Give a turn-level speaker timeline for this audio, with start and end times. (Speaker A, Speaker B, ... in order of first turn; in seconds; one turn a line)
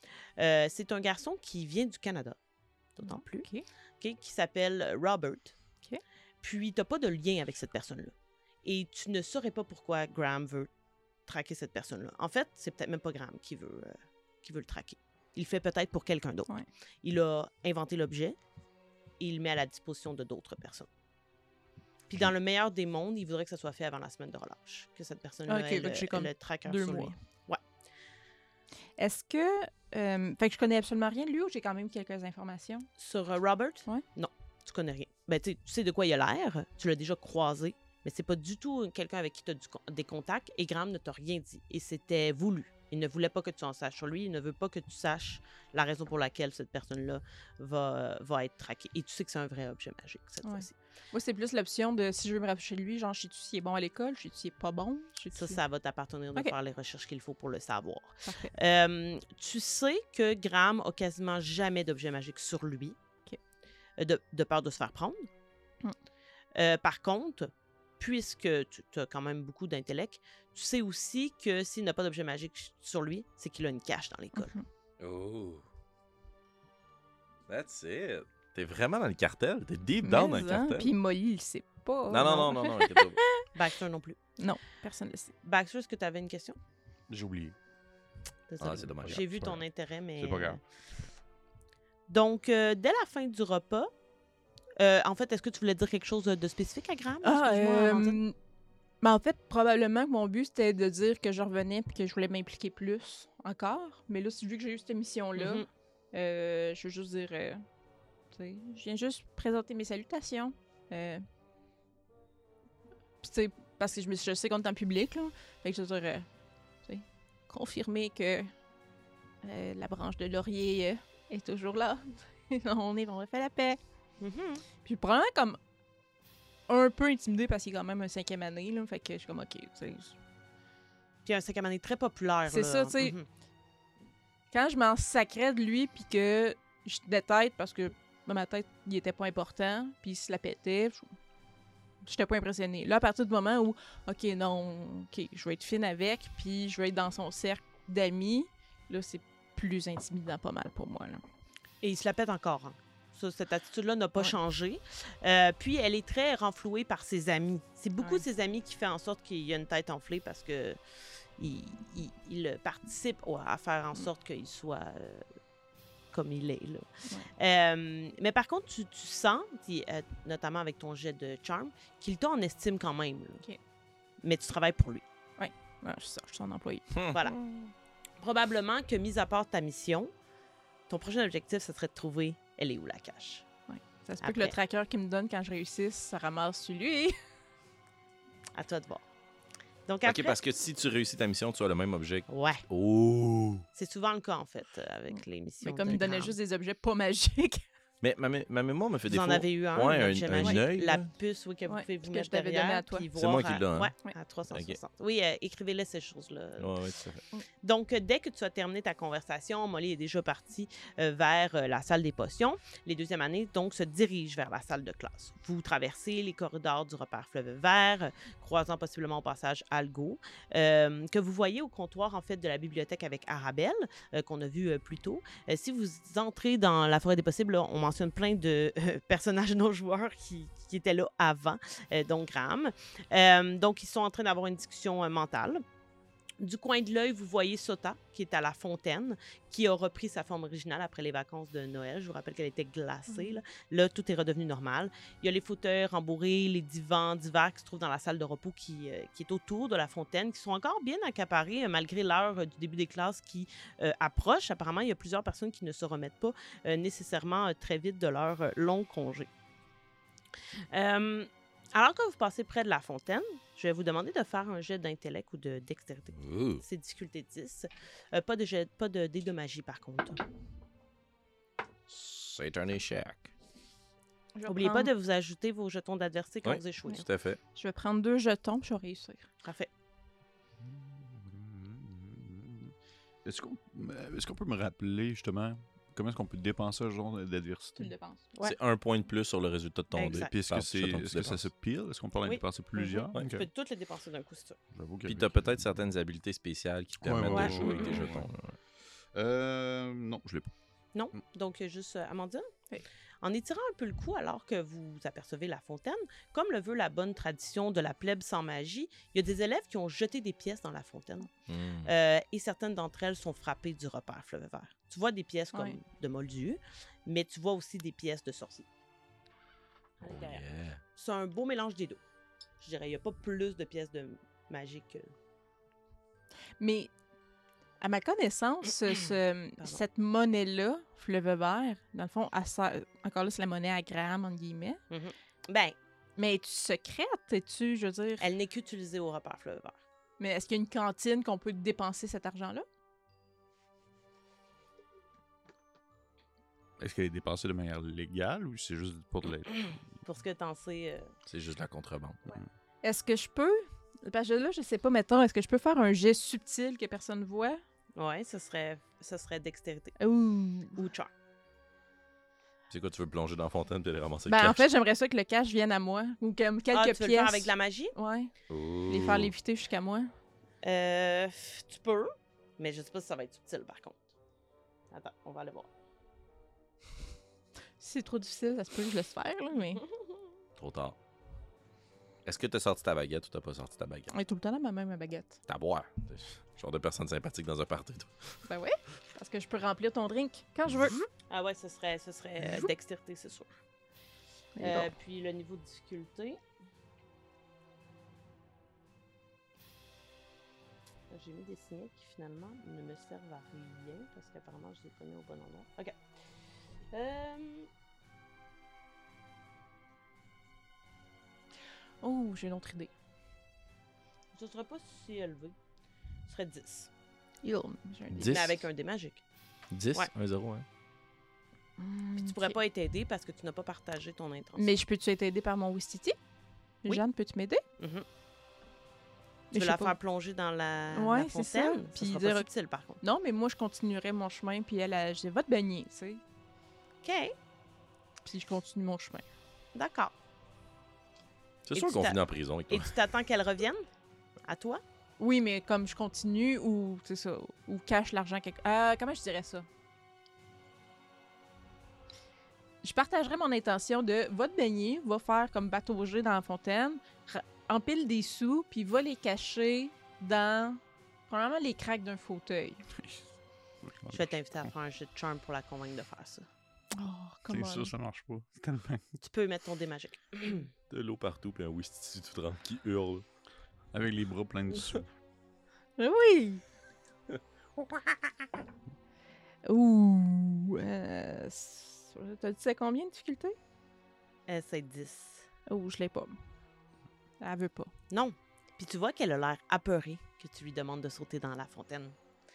Speaker A: 0.4-2.4
Speaker A: 3.0-3.5
Speaker B: 3.0-3.6
Speaker A: 4.0-5.6
Speaker A: 6.4-8.1
Speaker A: 8.6-10.7
Speaker A: 11.3-16.5
Speaker A: 17.0-18.4
Speaker A: 19.2-20.9
Speaker A: 22.1-27.6
Speaker B: 25.5-27.2
Speaker B: 29.0-32.9
Speaker A: 33.0-50.7
Speaker B: 50.4-55.6
Speaker A: 55.4-63.0
Speaker B: 58.2-58.5
Speaker A: 64.0-65.3
Speaker A: 66.5-74.5
Speaker B: 74.4-74.7
Speaker C: 75.0-75.7
Speaker C: 77.5-80.9
Speaker B: 80.0-83.5
Speaker C: 82.1-83.2
Speaker A: 83.5-84.2
Speaker B: 84.4-85.3
Speaker A: 85.4-86.6
Speaker D: 87.1-87.5
Speaker A: 88.5-90.6
Speaker C: 88.6-89.3
Speaker D: 89.0-89.6
Speaker D: 90.2-90.6
Speaker A: 92.1-93.9
Speaker A: 94.8-98.2
Speaker B: 97.2-98.3
Speaker B: 99.0-107.6
Speaker A: 105.4-105.7
Speaker B: 108.3-111.2
Speaker B: 113.2-116.3
Speaker B: 116.8-118.5
Speaker B: 119.4-123.8
Speaker A: 124.2-124.6
Speaker B: 124.8-125.6
Speaker B: 126.7-130.2
Speaker A: 131.3-133.3
Speaker B: 132.5-133.1
Speaker B: 134.5-141.1
Speaker B: 142.0-151.2
Speaker A: 151.8-160.8
Speaker A: 161.4-165.3
Speaker A: 166.1-173.4
Speaker A: 174.2-175.0
Speaker B: 175.4-176.9
Speaker C: 176.9-177.2
Speaker A: 177.1-177.5
Speaker A: 178.2-180.1
Speaker A: 180.9-183.5
Speaker B: 183.7-187.2
Speaker A: 184.2-184.6
Speaker A: 188.6-189.0
Speaker A: 189.9-190.4
Speaker C: 190.0-193.7
Speaker A: 192.3-192.6
Speaker A: 193.8-196.3
Speaker B: 195.1-197.7
Speaker C: 198.0-201.1
Speaker A: 199.1-206.8
Speaker B: 201.7-203.1
Speaker C: 203.2-203.9
Speaker C: 204.5-204.8
Speaker C: 206.6-207.2
Speaker A: 207.6-235.6
Speaker A: 236.4-259.3
Speaker B: 243.1-243.4
Speaker A: 260.7-270.2
Speaker C: 266.2-266.6
Speaker C: 271.9-273.3
Speaker B: 274.4-274.9
Speaker A: 274.5-277.1
Speaker C: 276.4-277.4
Speaker B: 277.6-279.3
Speaker A: 279.4-279.7
Speaker D: 280.6-287.9
Speaker B: 287.8-288.3
Speaker C: 288.4-291.5
Speaker A: 289.9-290.3
Speaker D: 290.1-293.5
Speaker A: 292.2-294.6
Speaker D: 294.7-295.8
Speaker C: 295.1-298.6
Speaker D: 297.0-298.3
Speaker A: 297.3-298.0
Speaker D: 299.1-300.5
Speaker A: 300.9-302.5
Speaker A: 303.2-311.3
Speaker C: 311.5-311.9
Speaker A: 311.9-318.7
Speaker A: 320.0-320.4
Speaker C: 320.1-320.8
Speaker A: 320.9-322.0
Speaker A: 322.6-325.1
Speaker B: 326.6-326.9
Speaker B: 327.8-334.8
Speaker A: 334.9-335.8
Speaker B: 336.2-338.3
Speaker A: 338.2-339.8
Speaker B: 340.2-342.7
Speaker D: 346.8-349.8
Speaker A: 350.1-351.1
Speaker C: 351.3-352.2
Speaker B: 352.8-357.6
Speaker A: 358.0-360.0
Speaker B: 360.0-360.8
Speaker A: 360.8-361.1
Speaker C: 362.7-364.6
Speaker B: 364.3-368.3
Speaker A: 366.7-367.9
Speaker C: 368.5-369.3
Speaker B: 368.9-370.1
Speaker A: 370.6-374.0
Speaker A: 374.9-375.7
Speaker B: 377.8-379.8
Speaker C: 380.6-381.0
Speaker C: 382.2-384.1
Speaker B: 384.1-385.4
Speaker C: 385.5-388.3
Speaker B: 388.5-391.1
Speaker A: 391.3-393.5
Speaker B: 394.6-394.9
Speaker A: 394.6-396.4
Speaker A: 401.1-406.0
Speaker A: 406.9-407.7
Speaker B: 412.0-412.9
Speaker A: 414.3-415.6
Speaker A: 416.3-416.9
Speaker B: 417.4-418.5
Speaker C: 418.1-418.6
Speaker A: 418.2-419.2
Speaker C: 419.7-420.6
Speaker B: 421.8-422.6
Speaker A: 422.2-424.7
Speaker B: 424.6-426.2
Speaker B: 426.8-427.6
Speaker A: 427.8-428.1
Speaker B: 429.5-429.9
Speaker A: 429.5-433.0
Speaker B: 430.9-432.5
Speaker B: 433.0-436.2
Speaker A: 437.0-437.4
Speaker B: 438.2-439.3
Speaker A: 439.8-440.1
Speaker C: 441.7-442.9
Speaker A: 441.7-443.8
Speaker A: 444.5-444.8
Speaker B: 445.2-449.7
Speaker B: 452.8-462.8
Speaker D: 463.0-463.3
Speaker D: 463.8-464.7
Speaker A: 464.1-466.5
Speaker B: 466.9-467.9
Speaker D: 467.5-469.1
Speaker A: 469.2-470.7
Speaker C: 470.9-473.2
Speaker D: 473.9-475.1
Speaker B: 476.0-476.6
Speaker B: 479.6-483.6
Speaker A: 484.5-485.5
Speaker B: 485.7-486.4
Speaker B: 487.4-487.9
Speaker A: 488.1-492.2